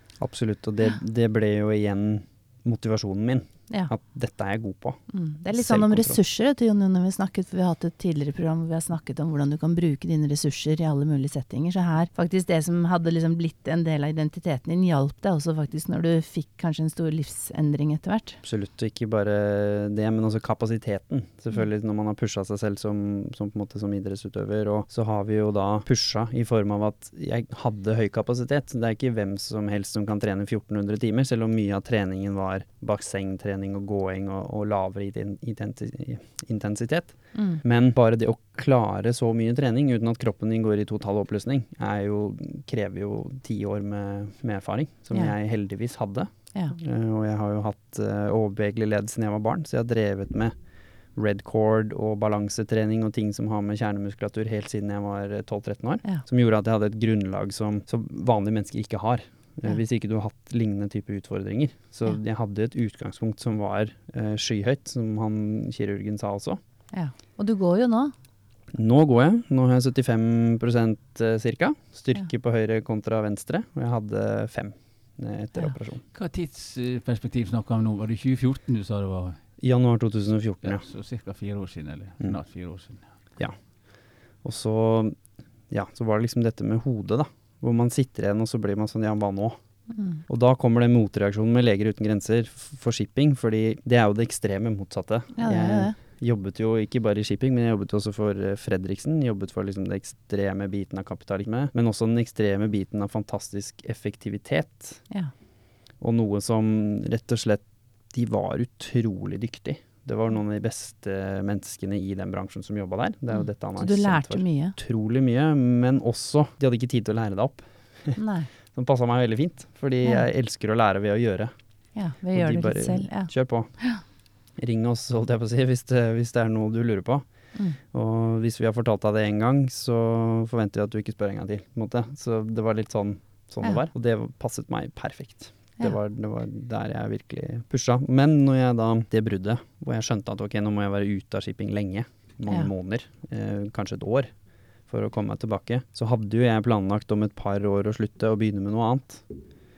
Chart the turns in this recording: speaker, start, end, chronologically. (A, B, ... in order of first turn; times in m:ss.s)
0:00.2-0:05.0 A
0:05.1-0:18.4 B
0:05.5-0:06.2 A
0:18.4-0:50.5 A
0:37.3-0:37.6 B
0:51.2-1:06.6 A
1:06.9-1:08.1 B
1:08.7-1:16.0 A
1:16.1-1:19.4 C
1:19.6-1:20.9 A
1:20.6-1:23.1 C
1:24.4-1:25.2 A
1:25.7-1:29.6 A
1:29.9-1:30.2 B
1:30.3-1:45.0 A
1:35.4-1:36.0 B
1:46.0-1:58.2 A
1:53.7-1:54.8 B
1:58.2-1:58.5 B
1:58.7-2:01.5 A
2:02.0-2:04.0 B
2:02.3-2:03.9 A
2:04.6-2:24.3 A
2:24.9-2:29.2 A